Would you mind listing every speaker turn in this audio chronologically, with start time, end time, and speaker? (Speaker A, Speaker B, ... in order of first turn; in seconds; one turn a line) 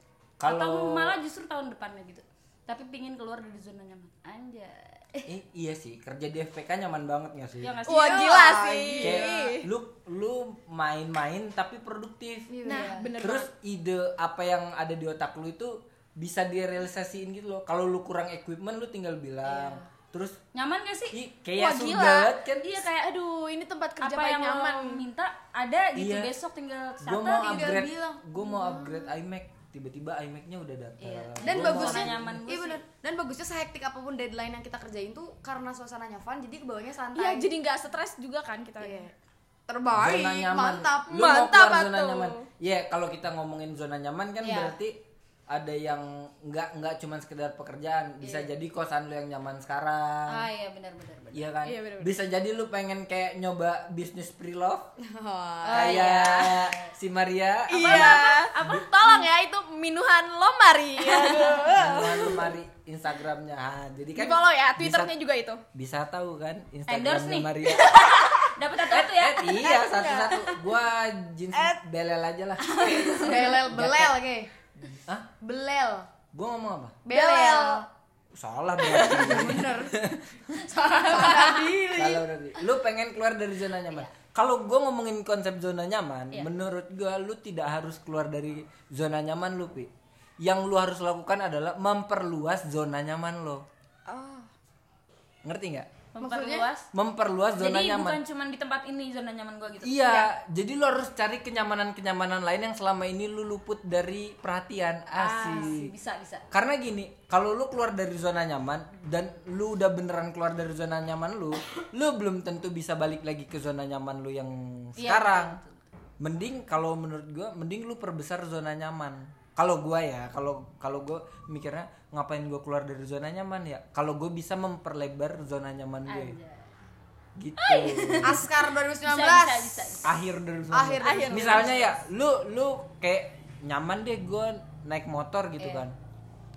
Speaker A: 0.4-1.2
Speaker B: 0.4-5.3
Speaker A: 5.3-7.8
Speaker B: 7.6-8.5
Speaker C: 7.8-9.7
Speaker D: 7.9-9.3
Speaker A: 9.0-12.6
Speaker D: 12.5-13.1
Speaker B: 12.6-13.1
Speaker C: 12.6-13.5
Speaker A: 13.2-20.4
Speaker B: 20.5-21.2
Speaker A: 21.1-22.8
Speaker C: 21.6-22.3
Speaker B: 22.6-23.1
Speaker C: 23.0-25.0
Speaker B: 24.0-27.8
Speaker A: 25.9-26.3
Speaker A: 27.0-32.4
Speaker D: 27.2-29.1
Speaker B: 31.0-32.8
Speaker D: 31.4-37.5
Speaker C: 37.1-39.1
Speaker D: 38.8-39.1
Speaker D: 39.7-41.3
Speaker A: 39.9-50.5
Speaker C: 41.1-42.4
Speaker B: 44.4-44.8
Speaker B: 50.3-51.5
Speaker A: 51.3-54.9
Speaker C: 51.6-52.1
Speaker D: 55.0-56.0
Speaker B: 55.6-56.9
Speaker A: 55.7-58.7
Speaker C: 56.0-56.4
Speaker C: 57.7-62.5
Speaker B: 57.8-59.3
Speaker A: 61.7-65.1
Speaker C: 64.2-65.6
Speaker A: 65.7-68.0
Speaker B: 66.9-69.8
Speaker A: 68.9-74.1
Speaker C: 69.5-70.6
Speaker B: 72.6-73.6
Speaker C: 72.9-73.5
Speaker D: 73.2-74.5
Speaker A: 74.9-75.3
Speaker D: 75.4-76.1
Speaker A: 76.3-77.0
Speaker D: 77.0-77.8
Speaker C: 77.1-77.8
Speaker A: 78.3-80.5
Speaker D: 78.9-79.9
Speaker B: 80.5-81.7
Speaker D: 81.0-82.2
Speaker A: 81.9-89.9
Speaker A: 90.4-93.6
Speaker C: 94.0-94.5
Speaker A: 95.4-95.9
Speaker B: 96.1-96.9
Speaker D: 96.2-96.7
Speaker A: 96.9-98.2
Speaker B: 97.5-100.3
Speaker A: 99.8-105.9
Speaker B: 105.1-106.4
Speaker A: 106.5-115.6
Speaker B: 115.0-115.8
Speaker A: 116.2-126.4
Speaker B: 126.1-126.7
Speaker A: 127.3-128.4
Speaker B: 127.6-128.5
Speaker D: 128.2-130.0
Speaker B: 129.0-130.1
Speaker A: 130.0-135.9
Speaker D: 130.7-131.8
Speaker C: 131.0-131.9
Speaker B: 135.6-135.8